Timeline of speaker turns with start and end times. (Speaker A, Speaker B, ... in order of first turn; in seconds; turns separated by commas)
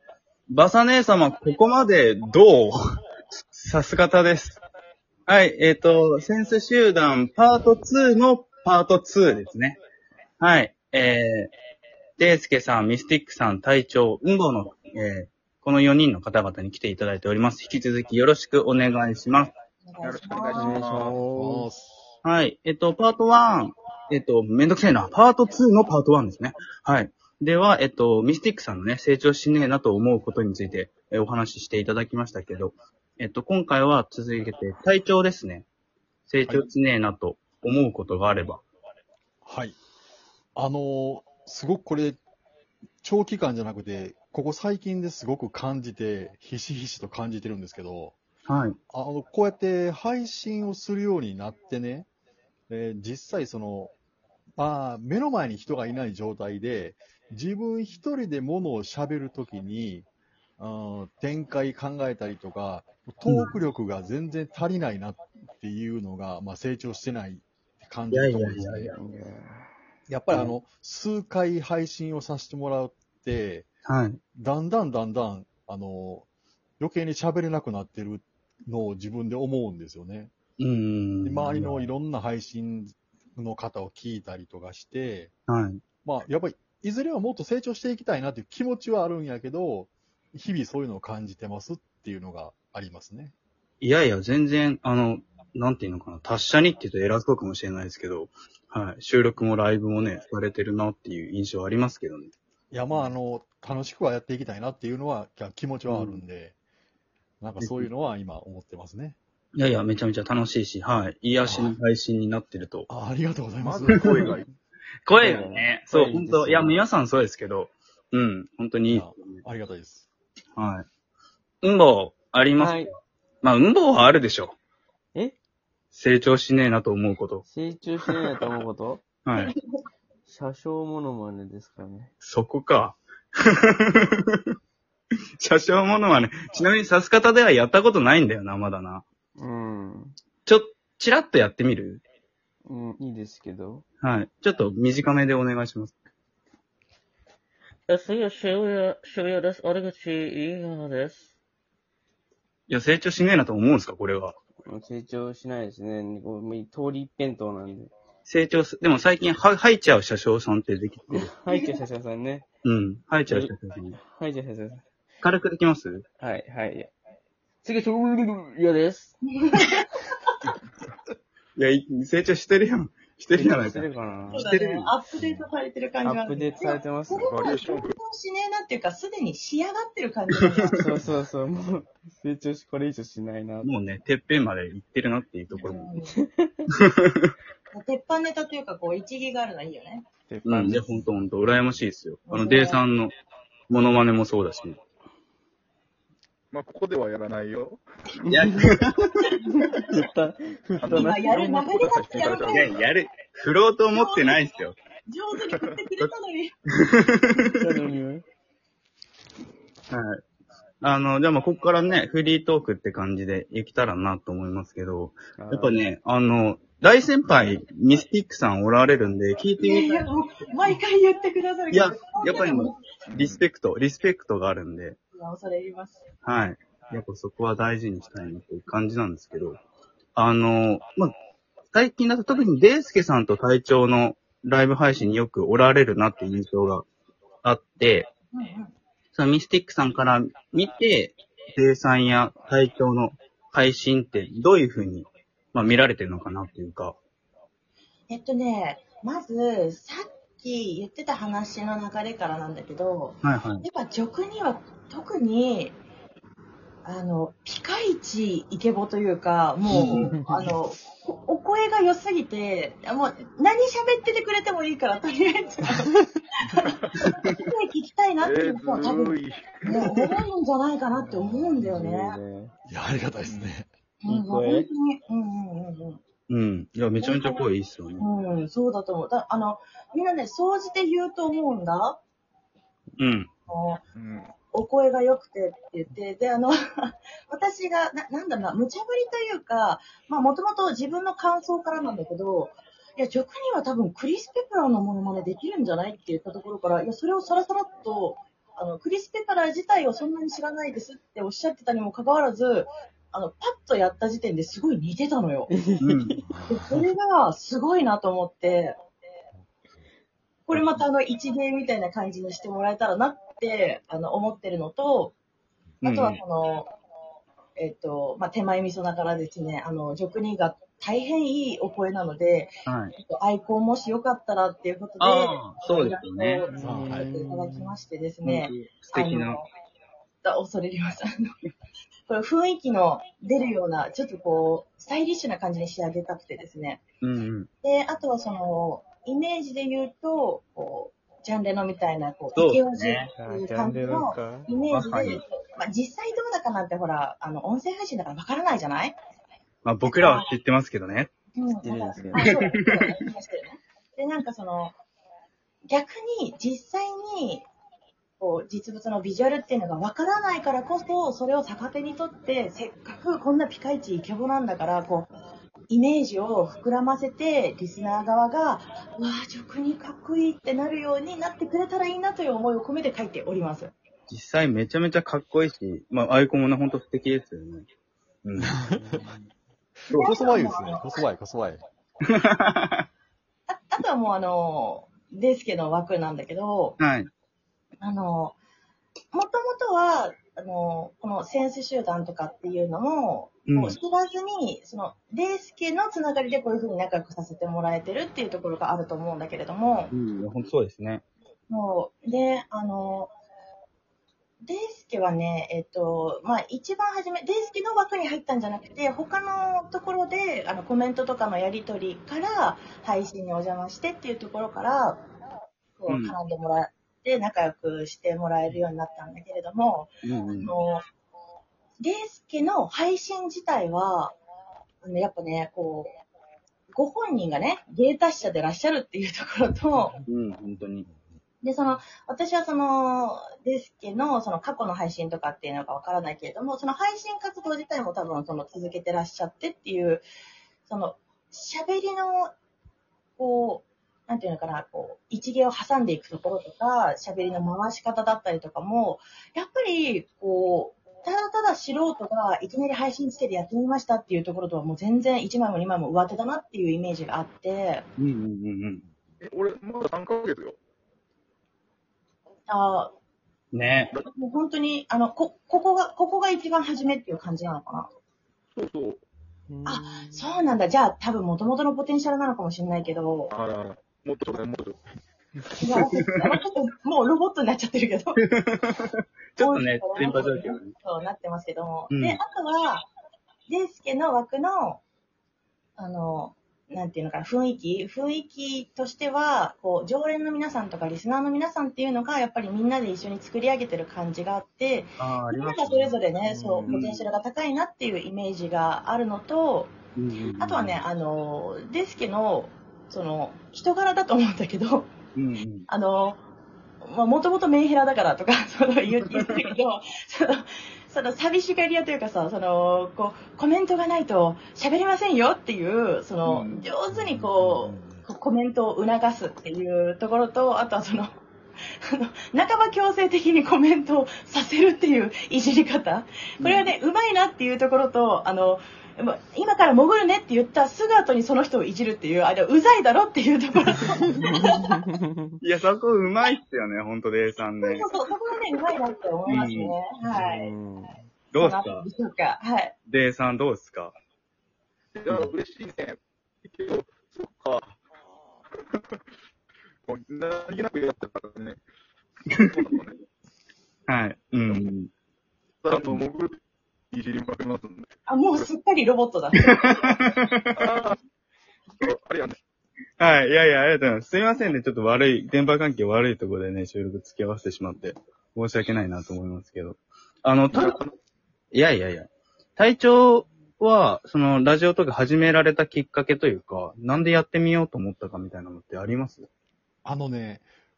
Speaker A: 0.5-2.7, Speaker A: 3.5-4.6, Speaker A: 5.3-9.8, Speaker A: 10.4-11.5, Speaker A: 12.2-19.5, Speaker B: 19.8-20.7, Speaker C: 20.0-21.2, Speaker D: 20.5-21.7, Speaker E: 21.0-22.1, Speaker A: 22.2-35.6, Speaker A: 36.3-38.6, Speaker E: 39.4-39.8, Speaker E: 40.5-42.2, Speaker E: 43.0-48.2, Speaker A: 48.5-48.8, Speaker E: 48.9-52.1, Speaker E: 52.7-53.9, Speaker E: 54.6-60.1, Speaker E: 60.6-68.9, Speaker A: 63.3-63.5, Speaker A: 68.1-68.9, Speaker D: 68.9-69.7, Speaker E: 70.1-73.7, Speaker A: 73.8-74.2, Speaker E: 74.3-76.3, Speaker E: 76.8-80.3, Speaker A: 80.6-81.8, Speaker E: 81.2-85.3, Speaker A: 85.5-85.8, Speaker E: 86.0-93.3, Speaker A: 93.8-102.3, Speaker E: 102.7-106.5, Speaker E: 107.4-109.2, Speaker A: 107.6-107.9, Speaker A: 109.6-112.9, Speaker E: 111.4-111.8, Speaker E: 112.9-114.2, Speaker C: 113.6-114.5, Speaker A: 114.0-114.3, Speaker A: 115.0-119.4, Speaker D: 115.2-116.8, Speaker E: 118.9-120.1, Speaker A: 120.5-120.9, Speaker A: 121.6-122.8, Speaker D: 122.6-122.9, Speaker A: 123.4-124.6, Speaker A: 125.9-127.4, Speaker D: 127.5-129.0, Speaker A: 129.2-129.5, Speaker D: 130.2-132.1, Speaker A: 132.2-134.4, Speaker A: 135.4-139.0, Speaker D: 139.4-140.2, Speaker A: 140.4-142.0, Speaker D: 142.7-143.8, Speaker A: 144.0-145.9, Speaker F: 147.9-151.2, Speaker D: 148.0-149.0, Speaker D: 149.6-151.1, Speaker A: 152.7-154.3, Speaker D: 154.6-157.9, Speaker A: 158.2-161.3, Speaker D: 161.1-162.4, Speaker A: 162.6-164.0, Speaker D: 163.3-164.8, Speaker A: 165.2-166.0, Speaker D: 166.2-166.9, Speaker D: 167.6-169.1, Speaker B: 169.3-169.9, Speaker A: 171.6-174.9, Speaker D: 173.3-174.5, Speaker B: 174.3-180.8, Speaker E: 175.2-175.5, Speaker D: 176.0-177.3, Speaker C: 177.1-177.9, Speaker D: 180.7-183.7, Speaker A: 183.6-185.9, Speaker B: 185.5-186.2, Speaker D: 186.1-186.6, Speaker A: 186.8-187.3, Speaker B: 187.7-190.0, Speaker D: 190.3-191.0, Speaker A: 190.4-193.1, Speaker B: 192.3-192.8, Speaker A: 193.7-194.8, Speaker C: 196.5-197.8, Speaker D: 198.2-198.7, Speaker A: 198.3-199.4, Speaker D: 199.4-201.9, Speaker C: 200.8-202.8, Speaker B: 200.9-202.7, Speaker A: 202.4-204.8, Speaker B: 203.9-204.4, Speaker B: 205.1-206.5, Speaker A: 206.8-207.4, Speaker D: 207.5-208.2, Speaker A: 209.9-210.2, Speaker A: 210.8-220.1, Speaker D: 215.4-215.8, Speaker B: 219.6-222.8, Speaker A: 221.7-225.0, Speaker C: 223.1-223.4, Speaker B: 225.2-226.0, Speaker A: 226.2-229.6, Speaker A: 230.1-231.1, Speaker A: 231.7-236.8, Speaker A: 237.4-238.1, Speaker B: 238.3-238.7, Speaker A: 239.1-246.9, Speaker B: 248.1-255.8, Speaker A: 253.2-253.6, Speaker B: 256.8-265.9, Speaker A: 259.7-260.1, Speaker D: 260.0-260.4, Speaker A: 267.0-267.3, Speaker B: 267.2-272.2, Speaker C: 268.2-269.6, Speaker D: 271.0-272.5, Speaker E: 272.7-273.7, Speaker B: 274.0-276.0, Speaker D: 274.1-274.7, Speaker A: 276.3-278.1, Speaker B: 277.0-277.5, Speaker B: 278.0-282.0, Speaker A: 283.0-283.3, Speaker B: 283.5-283.8, Speaker C: 283.9-284.3, Speaker B: 284.5-305.5, Speaker D: 305.5-306.2, Speaker A: 305.8-306.2, Speaker E: 306.3-306.8, Speaker B: 306.5-308.7, Speaker B: 310.5-315.1, Speaker A: 310.5-310.8, Speaker A: 315.8-316.2, Speaker B: 315.8-316.7, Speaker B: 317.6-329.5, Speaker A: 322.6-322.9, Speaker A: 325.0-326.4, Speaker D: 326.5-327.8, Speaker E: 326.6-327.1, Speaker A: 328.2-329.4, Speaker B: 330.2-331.3, Speaker B: 332.1-336.8, Speaker A: 337.0-337.5, Speaker B: 337.6-348.9, Speaker A: 342.3-343.1, Speaker D: 343.1-344.6, Speaker A: 344.7-345.2, Speaker A: 349.6-351.1, Speaker B: 349.8-350.3, Speaker B: 351.4-354.7, Speaker D: 351.6-352.3, Speaker A: 352.2-352.9, Speaker B: 355.7-357.5, Speaker B: 358.2-365.1, Speaker B: 365.7-373.7, Speaker A: 374.1-377.7, Speaker A: 378.2-378.6, Speaker E: 378.5-379.0, Speaker D: 378.7-379.3, Speaker E: 379.9-381.6, Speaker B: 379.9-380.9, Speaker A: 382.1-382.8, Speaker B: 383.5-386.8, Speaker A: 386.8-387.1, Speaker B: 387.8-388.4, Speaker B: 389.1-399.9, Speaker A: 393.5-393.8, Speaker A: 399.9-401.0, Speaker B: 401.5-403.1, Speaker B: 404.4-415.0, Speaker B: 415.8-420.8, Speaker A: 415.9-416.1, Speaker A: 420.0-420.5, Speaker B: 421.8-424.2, Speaker B: 424.8-425.9, Speaker B: 426.7-430.0, Speaker E: 429.7-430.0, Speaker A: 430.1-430.9, Speaker B: 431.4-440.0, Speaker B: 440.7-442.3, Speaker B: 443.2-457.9, Speaker A: 458.0-458.8, Speaker C: 459.2-460.6, Speaker B: 462.5-462.9, Speaker A: 463.5-463.9, Speaker B: 464.1-467.9, Speaker C: 468.5-469.0, Speaker D: 469.5-470.3, Speaker B: 469.6-473.3, Speaker C: 473.3-474.8, Speaker B: 475.6-478.2, Speaker A: 476.0-476.3, Speaker A: 478.2-480.7, Speaker B: 479.4-482.9, Speaker A: 481.9-482.2, Speaker B: 483.5-484.8, Speaker B: 485.8-499.7, Speaker A: 495.0-496.0, Speaker D: 496.2-497.0, Speaker A: 499.9-500.8, Speaker B: 500.4-504.9, Speaker A: 505.1-505.7, Speaker B: 505.7-506.2, Speaker B: 506.8-521.1, Speaker A: 516.2-516.7, Speaker E: 516.9-518.0, Speaker B: 521.9-534.7, Speaker D: 526.4-526.7, Speaker D: 533.8-535.3, Speaker A: 535.4-537.9, Speaker B: 537.6-540.5, Speaker A: 539.3-539.7, Speaker D: 540.1-541.0, Speaker A: 541.3-541.8, Speaker B: 541.4-542.7, Speaker A: 542.9-543.9, Speaker C: 544.9-547.8, Speaker C: 548.6-549.0, Speaker C: 549.9-551.6, Speaker C: 552.3-553.0, Speaker A: 553.9-554.9, Speaker C: 555.6-556.4, Speaker A: 555.7-556.0, Speaker C: 556.9-558.5, Speaker B: 558.1-559.6, Speaker A: 559.4-560.6, Speaker C: 560.5-561.0, Speaker C: 561.8-562.4, Speaker A: 563.0-570.8, Speaker C: 570.5-570.9, Speaker A: 571.5-579.3, Speaker E: 579.8-580.4